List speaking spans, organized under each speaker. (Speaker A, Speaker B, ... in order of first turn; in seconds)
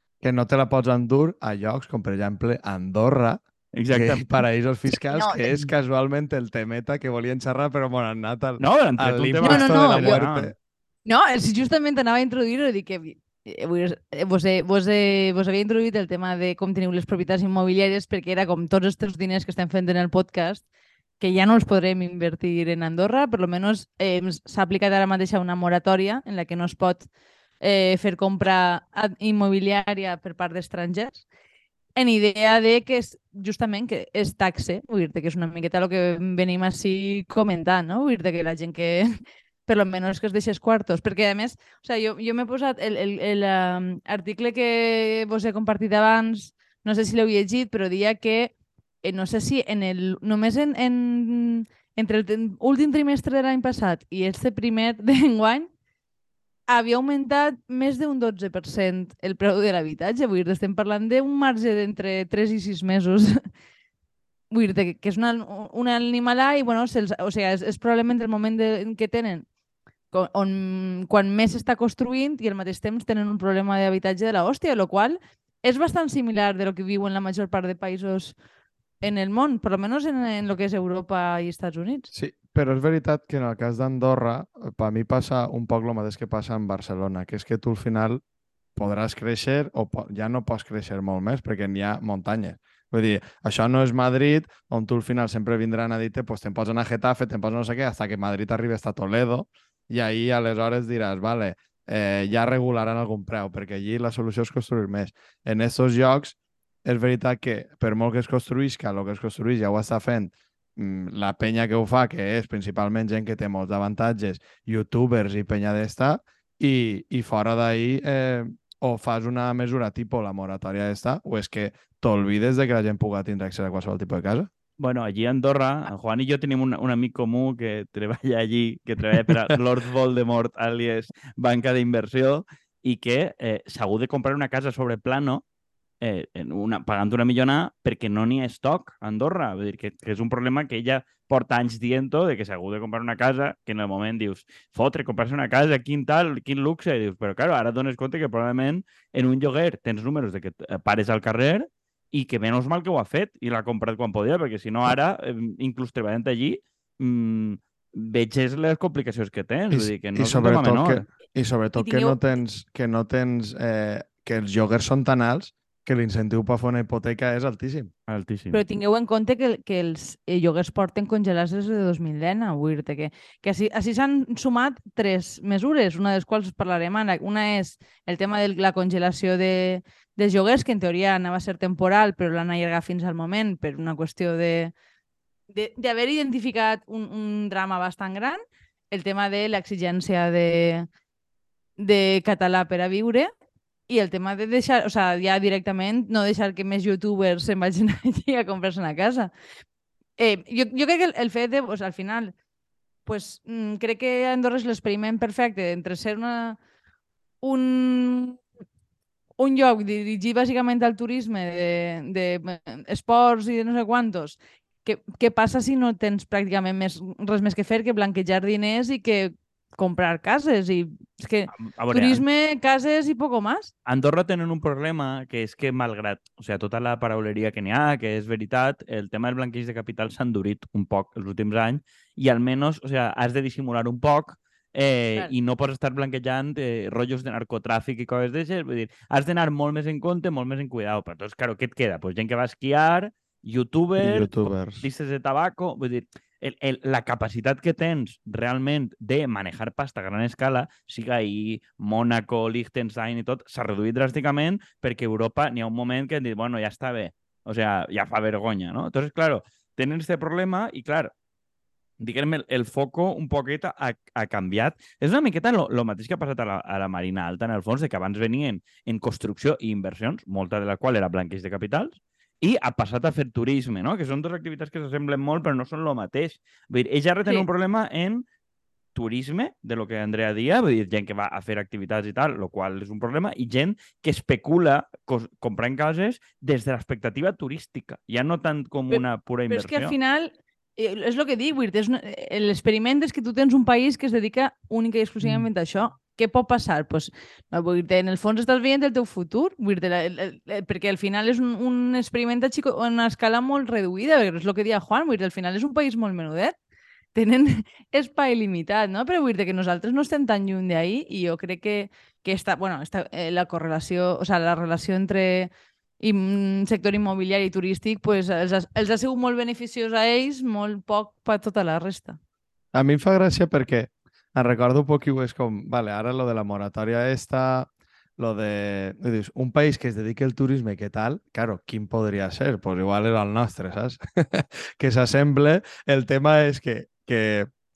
Speaker A: 0.2-10.5, 82.1-88.2, 88.8-124.5, 159.7-167.9, 244.0-244.9, 322.7-337.5
Speaker B: 3.7-4.3, 8.6-10.5, 124.8-135.4, 136.0-161.1, 168.1-168.6, 221.5-222.2, 223.8-261.1, 262.0-278.2, 278.9-289.9
Speaker C: 5.1-5.5, 9.4-10.2, 11.1-20.6, 21.2-27.1, 27.6-31.2, 32.0-39.1, 39.6-48.5, 49.0-55.7, 56.7-63.4, 64.5-69.5, 70.1-78.3, 79.0-82.1, 161.8-162.2, 168.5-184.7, 185.5-188.4, 188.9-190.9, 191.8-193.3, 193.9-199.3, 200.2-202.3, 203.1-206.6, 207.4-208.4, 209.4-223.7, 288.9-306.5, 307.1-322.2